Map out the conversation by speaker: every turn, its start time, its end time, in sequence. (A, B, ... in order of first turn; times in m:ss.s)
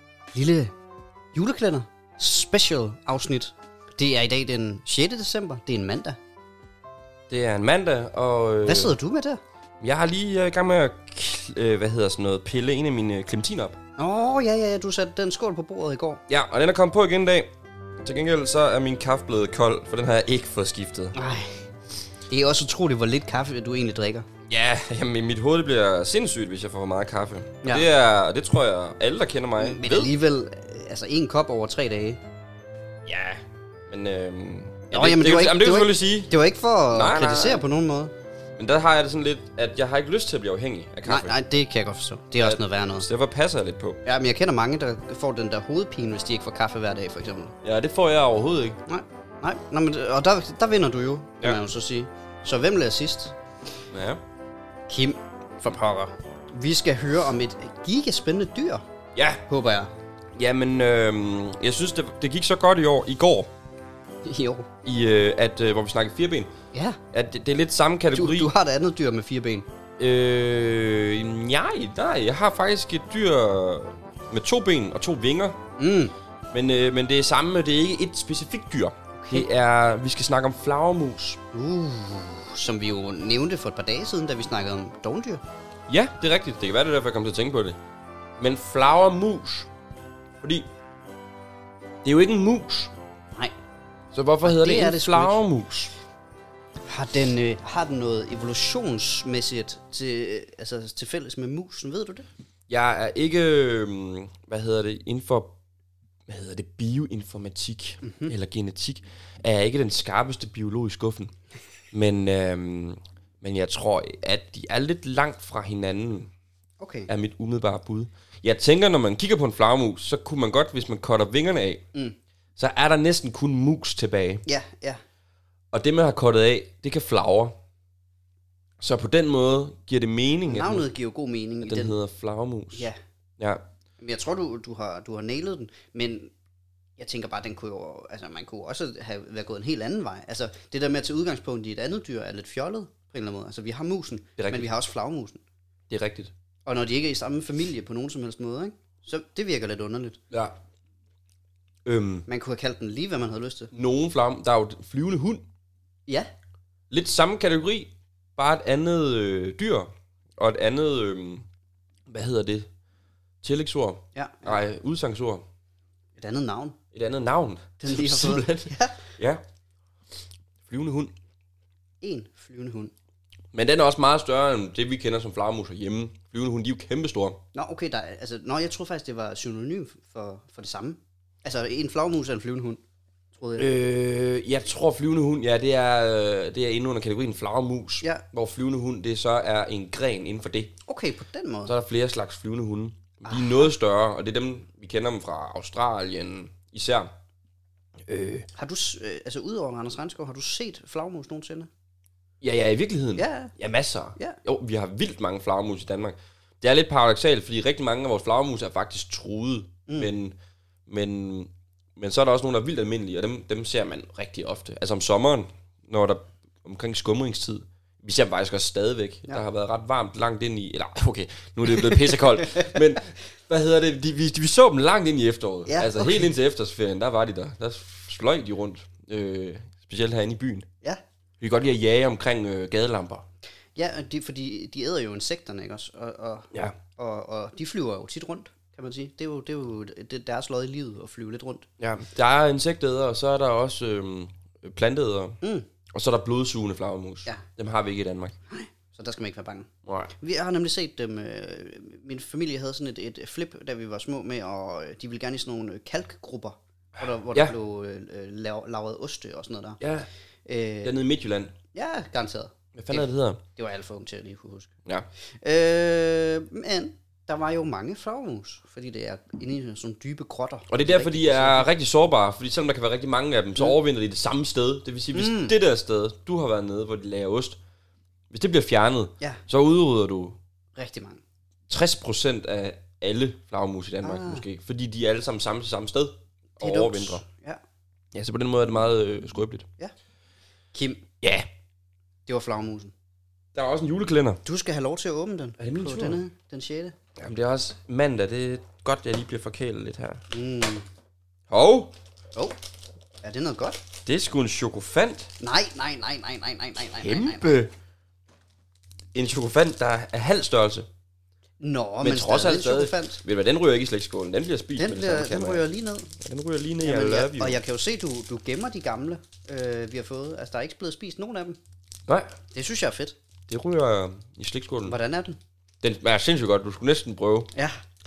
0:00.3-0:00.7 A
0:01.3-0:06.2 A
0:07.3-0:09.0 B
0:08.7-0:09.4 A
0:09.8-0:13.8 B
0:14.0-0:16.2 A
0:16.3-0:17.5 B
0:18.0-0:21.2 B
0:21.1-0:21.7 A
0:22.3-0:24.3 A
0:24.5-0:30.1 B
0:29.6-0:32.2 A
0:33.1-0:36.3 B
0:34.9-0:38.1 A
0:36.9-0:37.7 B
0:38.6-0:41.4 B
0:41.1-0:43.1 A
0:42.4-0:44.0 B
0:44.0-0:47.6 A
0:47.6-0:48.8 B
0:48.9-0:53.4 A
0:53.9-0:54.2 B
0:54.9-0:58.8 A
0:59.2-0:59.4 B
0:59.5-0:59.9 A
1:00.4-1:03.5 B
1:04.2-1:04.7 A
1:04.8-1:06.5 B
1:06.7-1:07.0 A
1:07.1-1:08.5 B
1:08.1-1:09.7 A
1:10.0-1:15.6 B
1:15.8-1:16.1 A
1:16.5-1:21.4 B
1:19.2-1:19.5 A
1:21.5-1:25.4 A
1:25.9-1:27.8 B
1:28.4-1:29.7 B
1:30.4-1:30.7 B
1:32.0-1:32.9 B
1:34.1-1:35.9 B
1:34.4-1:35.4 A
1:36.9-1:42.3 A
1:42.7-1:45.5 B
1:46.3-1:51.3 B
1:48.0-1:48.3 A
1:51.9-1:56.3 B
1:56.8-1:57.1 A
1:57.1-2:01.8 B
2:02.6-2:04.4 B
2:04.4-2:05.0 A
2:05.7-2:07.6 B
2:08.8-2:10.9 B
2:10.5-2:12.0 A
2:11.6-2:13.6 B
2:14.0-2:16.3 A
2:17.0-2:25.4 A
2:24.4-2:24.7 B
2:25.9-2:26.3 B
2:26.7-2:30.2 A
2:31.8-2:32.3 B
2:32.3-2:33.7 A
2:33.7-2:35.4 B
2:36.9-2:41.4 B
2:42.1-2:42.7 B
2:43.4-2:45.4 B
2:44.2-2:44.6 A
2:46.2-2:46.8 A
2:46.9-2:49.4 B
2:47.8-2:49.0 A
2:50.7-2:51.1 B
2:52.0-2:52.9 A
2:53.5-2:57.4 B
2:57.5-3:02.8 A
3:03.4-3:03.7 A
3:03.6-3:10.7 B
3:10.9-3:11.7 A
3:11.7-3:17.1 B
3:13.2-3:13.7 A
3:18.1-3:18.5 B
3:18.6-3:21.7 A
3:22.4-3:30.4 B
3:23.2-3:23.5 A
3:30.9-3:50.7 B
3:45.7-3:46.3 A
3:51.4-3:53.2 B
3:53.8-4:01.7 A
4:01.8-4:05.4 B
4:05.4-4:05.7 A
4:05.9-4:08.4 B
4:08.5-4:19.8 A
4:09.9-4:10.1 B
4:19.8-4:20.1 B
4:20.5-4:21.0 A
4:20.8-4:21.5 B
4:21.7-4:24.7 A
4:22.8-4:23.4 B
4:25.4-4:31.7 A
4:30.7-4:37.6 B
4:35.1-4:35.6 A
4:38.3-4:40.4 B
4:40.8-4:41.2 A
4:41.7-4:47.2 B
4:44.0-4:44.4 A
4:46.6-4:47.6 A
4:48.1-4:49.7 B
4:50.7-4:51.0 A
4:51.2-4:51.5 B
4:52.3-4:52.9 A
4:53.6-4:54.4 B
4:54.4-4:57.0 A
4:55.6-4:56.2 B
4:57.2-5:00.2 B
5:00.3-5:00.9 A
5:01.5-5:01.9 B
5:03.2-5:03.8 A
5:04.0-5:05.3 B
5:05.4-5:07.6 A
5:07.0-5:07.7 B
5:09.1-5:10.9 B
5:11.6-5:13.2 A
5:12.0-5:15.7 B
5:14.8-5:16.1 A
5:16.2-5:17.6 B
5:16.8-5:21.6 A
5:22.1-5:22.3 B
5:22.5-5:23.2 A
5:23.5-5:25.0 B
5:24.8-5:25.4 A
5:25.8-5:27.5 B